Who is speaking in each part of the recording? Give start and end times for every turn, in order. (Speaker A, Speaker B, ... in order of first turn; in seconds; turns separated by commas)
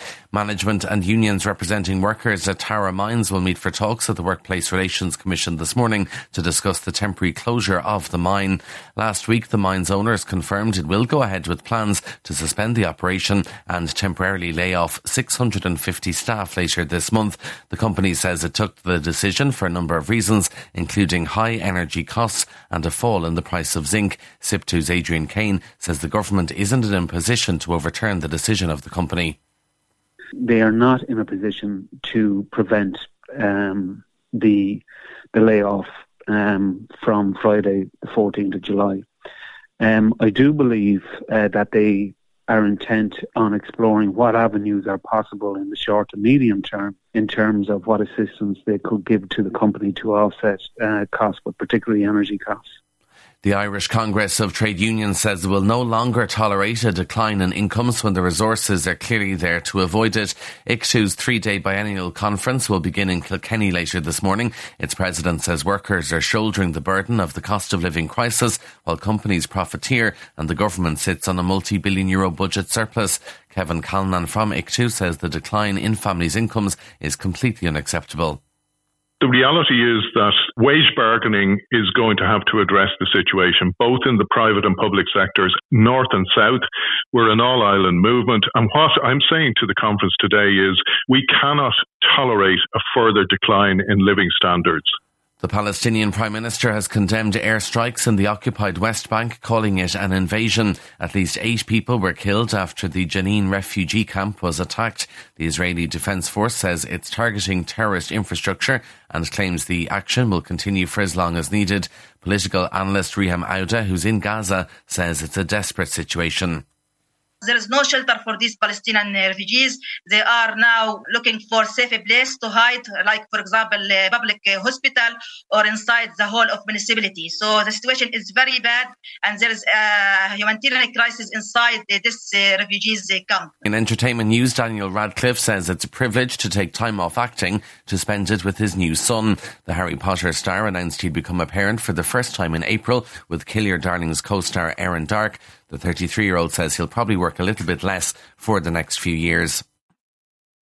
Speaker A: 0.3-29.4, Speaker B: 30.4-34.8, Speaker B: 35.3-39.0, Speaker B: 39.8-52.6, Speaker A: 53.4-78.4, Speaker C: 79.2-94.9, Speaker A: 95.4-116.6, Speaker D: 117.4-133.5, Speaker A: 133.6-149.6